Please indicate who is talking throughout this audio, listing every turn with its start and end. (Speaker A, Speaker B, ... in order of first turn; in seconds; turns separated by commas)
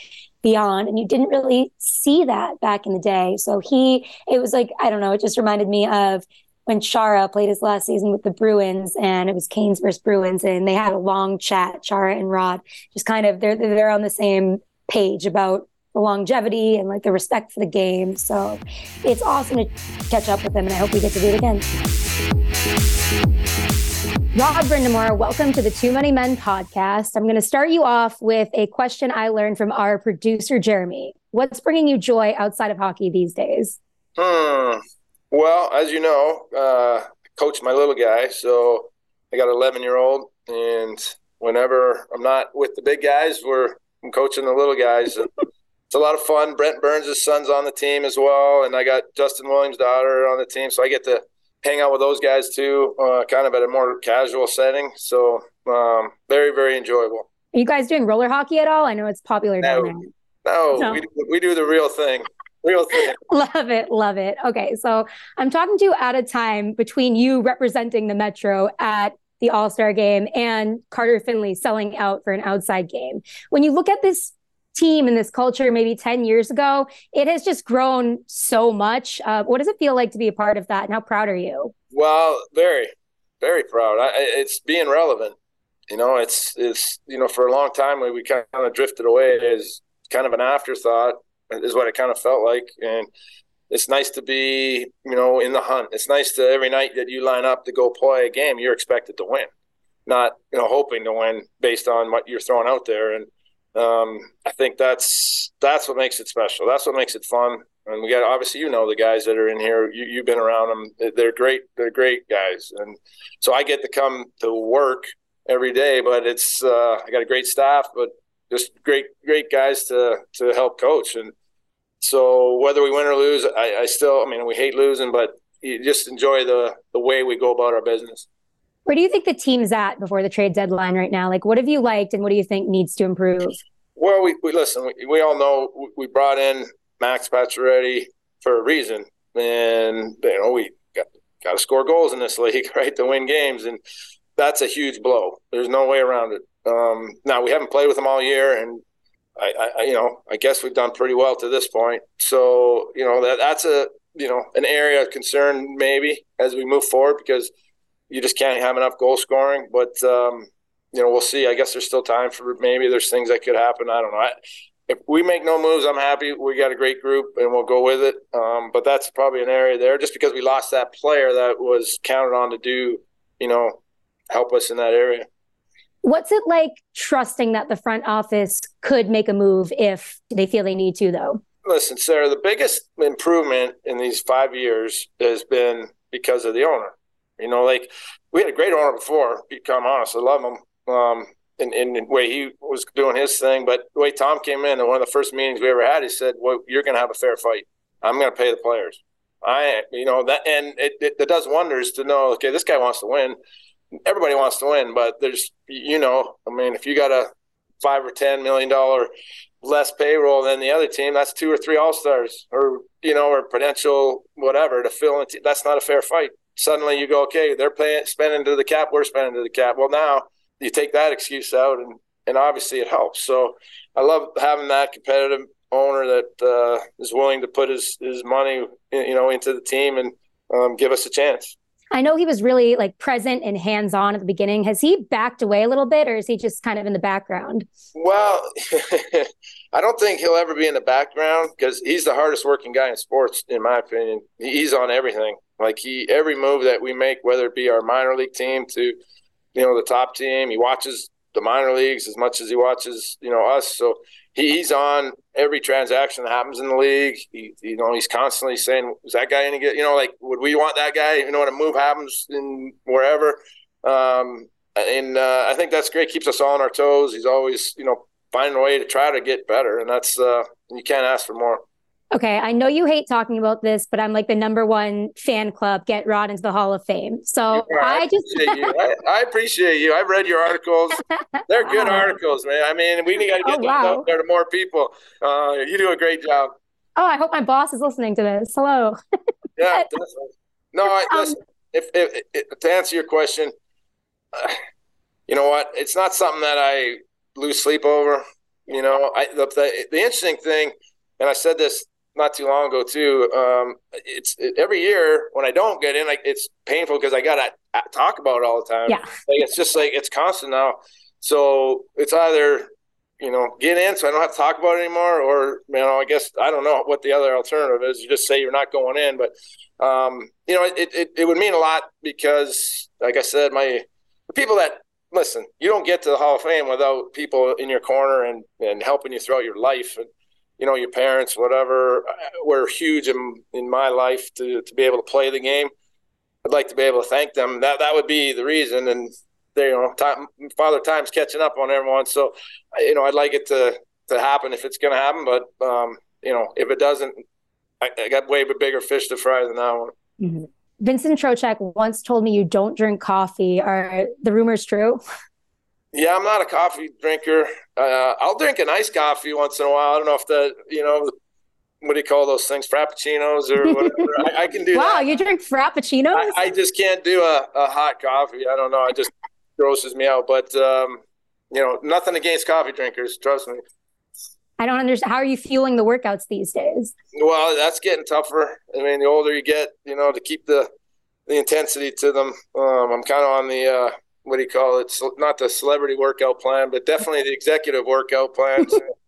Speaker A: 0.4-21.6, Speaker A: 24.3-33.8, Speaker B: 34.2-34.8, Speaker B: 35.3-45.3, Speaker B: 45.9-57.3, Speaker A: 57.5-60.1, Speaker B: 59.6-59.9, Speaker B: 60.4-63.2, Speaker A: 63.3-81.7, Speaker B: 81.9-85.3, Speaker B: 85.9-93.1, Speaker B: 93.7-99.5, Speaker B: 100.0-121.3, Speaker B: 122.0-128.2, Speaker A: 128.9-133.6, Speaker B: 133.9-143.8, Speaker B: 144.4-148.8, Speaker B: 149.3-157.5, Speaker B: 158.1-173.8, Speaker B: 174.3-175.3, Speaker A: 176.0-181.4, Speaker B: 181.6-203.4, Speaker B: 204.1-207.3, Speaker B: 207.8-209.1, Speaker B: 209.6-231.5, Speaker A: 231.9-237.6, Speaker B: 237.9-249.0, Speaker B: 249.5-271.6, Speaker A: 272.1-278.5, Speaker B: 277.5-286.5, Speaker A: 281.7-282.0, Speaker A: 283.4-284.0, Speaker A: 287.0-288.9, Speaker B: 289.6-293.5, Speaker B: 295.3-330.1, Speaker B: 330.6-335.7, Speaker B: 336.4-347.2, Speaker B: 347.8-349.9, Speaker A: 350.2-355.0, Speaker B: 355.9-361.1, Speaker B: 361.8-365.1, Speaker A: 364.8-366.4, Speaker B: 366.1-373.6, Speaker A: 374.6-376.9, Speaker B: 377.1-380.7, Speaker B: 381.3-388.8